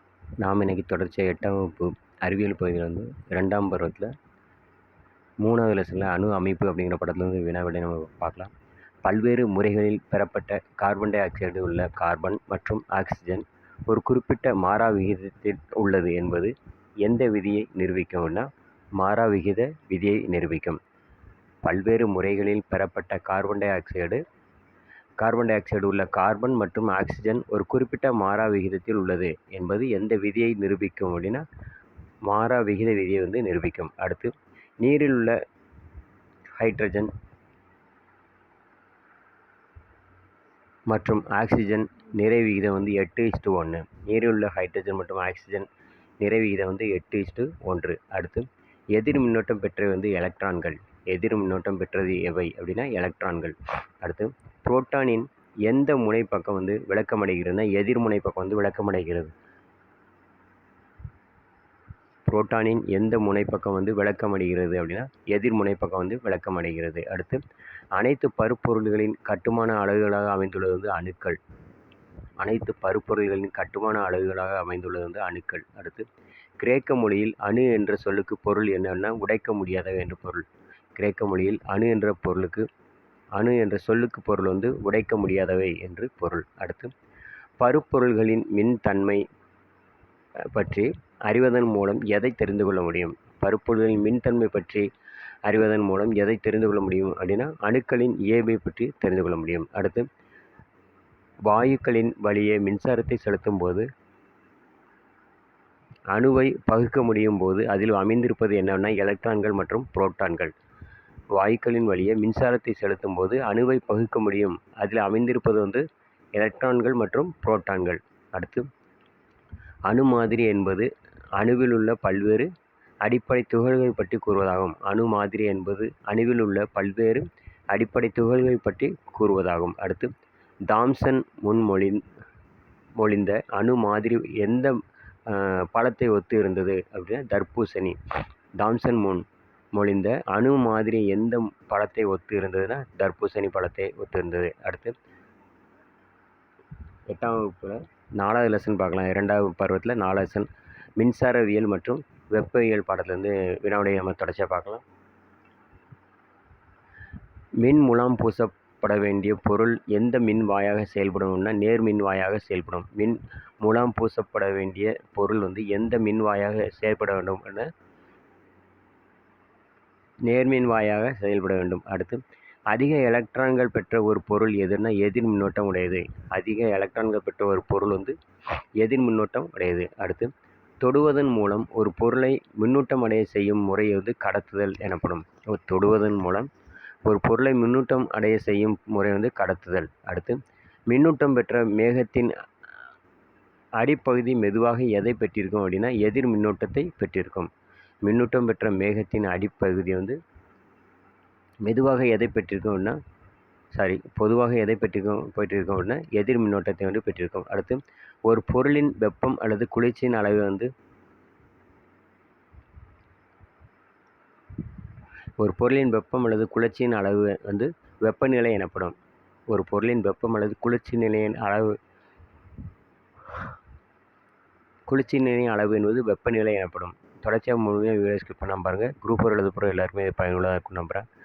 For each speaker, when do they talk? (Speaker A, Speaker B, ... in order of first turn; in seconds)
Speaker A: 0.4-4.1, 5.4-8.5, 9.1-16.5, 17.0-18.5, 19.0-20.8, 21.6-24.2, 25.2-31.4, 32.3-35.3, 36.6-37.1, 40.9-45.7, 46.2-59.3, 62.3-67.4, 68.0-71.4, 72.4-76.1, 76.6-80.5, 81.0-82.7, 83.4-86.9, 87.6-89.2, 90.5-94.9, 95.5-100.0, 101.5-103.9, 106.1-110.5, 111.4-115.8, 116.3-118.7, 119.9-122.5, 123.0-130.1, 130.7-132.0, 133.0-134.8, 135.3-138.0, 138.6-139.2, 139.8-144.9, 147.1-150.5, 151.0-154.8, 157.6-167.7, 170.3-178.2, 178.8-186.5, 187.1-190.4, 190.9-192.3, 193.8-197.5, 198.0-200.2, 201.6-203.0, 203.7-210.7, 215.4-218.9, 219.5-221.7, 224.9-231.1